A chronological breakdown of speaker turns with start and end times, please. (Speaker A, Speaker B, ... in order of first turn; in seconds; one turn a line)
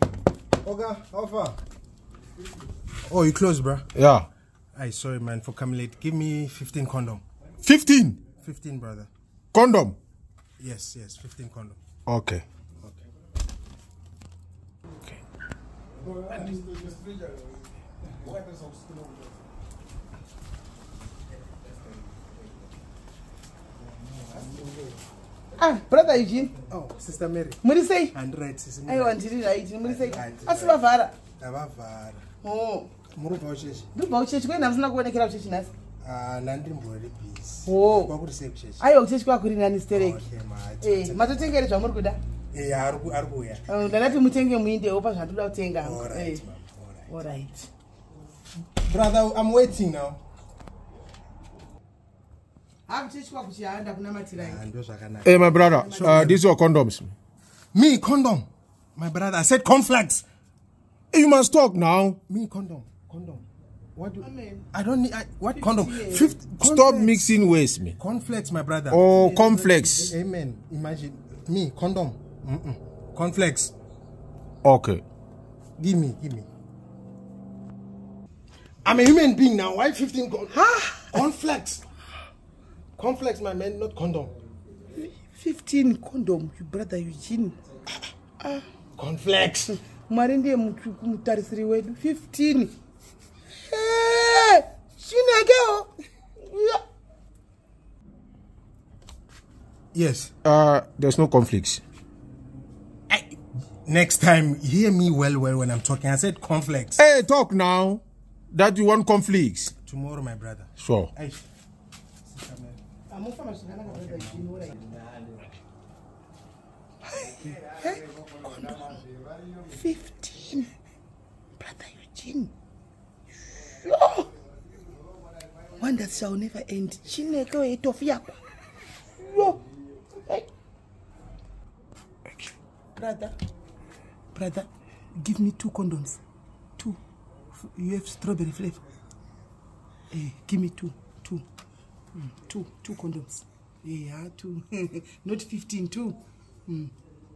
Speaker A: 0.6-1.6
Speaker A: 3.1-3.9
Speaker B: 3.9-4.3
Speaker A: 4.7-7.2
Speaker B: 7.6-8.2
Speaker A: 8.3-9.1
Speaker B: 9.5-10.0
Speaker A: 10.6-11.8
Speaker B: 12.1-12.4
Speaker C: 25.6-26.5
Speaker A: 26.6-27.6
Speaker C: 27.6-28.1
Speaker A: 28.1-30.8
Speaker C: 28.9-31.2
Speaker A: 31.4-32.2
Speaker C: 32.4-32.9
Speaker A: 33.1-33.9
Speaker C: 33.9-35.7
Speaker A: 36.0-38.8
Speaker C: 37.7-38.1
Speaker C: 38.8-40.2
Speaker A: 39.9-41.5
Speaker C: 40.8-42.2
Speaker A: 42.5-43.6
Speaker C: 43.7-46.5
Speaker A: 45.8-47.1
Speaker C: 47.1-47.7
Speaker A: 48.8-50.2
Speaker C: 52.9-54.6
Speaker A: 54.4-56.4
Speaker B: 55.2-57.1
Speaker C: 55.7-56.3
Speaker A: 57.7-60.2
Speaker B: 61.1-62.2
Speaker A: 62.3-67.3
Speaker C: 64.2-64.7
Speaker C: 65.5-66.3
Speaker B: 66.6-68.0
Speaker A: 68.0-69.0
Speaker B: 68.9-70.1
Speaker C: 69.2-70.2
Speaker A: 70.0-73.7
Speaker B: 74.6-75.0
Speaker A: 75.8-76.5
Speaker A: 78.8-81.8
Speaker C: 80.5-81.2
Speaker A: 83.0-84.3
Speaker C: 84.9-87.6
Speaker C: 88.4-88.7
Speaker A: 89.0-89.8
Speaker C: 89.7-92.7
Speaker C: 93.6-96.8
Speaker A: 99.9-100.3
Speaker B: 100.4-101.8
Speaker A: 103.1-107.0
Speaker B: 107.0-109.7
Speaker A: 109.8-111.4
Speaker B: 110.8-111.1
Speaker A: 112.2-112.8
Speaker C: 113.1-114.9
Speaker A: 113.9-114.4
Speaker C: 117.0-119.0
Speaker C: 119.7-120.7
Speaker C: 121.6-122.5
Speaker C: 123.7-124.3
Speaker C: 125.8-128.4
Speaker C: 129.2-129.6
Speaker C: 133.0-133.3
Speaker C: 134.3-136.2
Speaker C: 137.6-138.8
Speaker C: 140.1-141.4
Speaker C: 142.1-146.9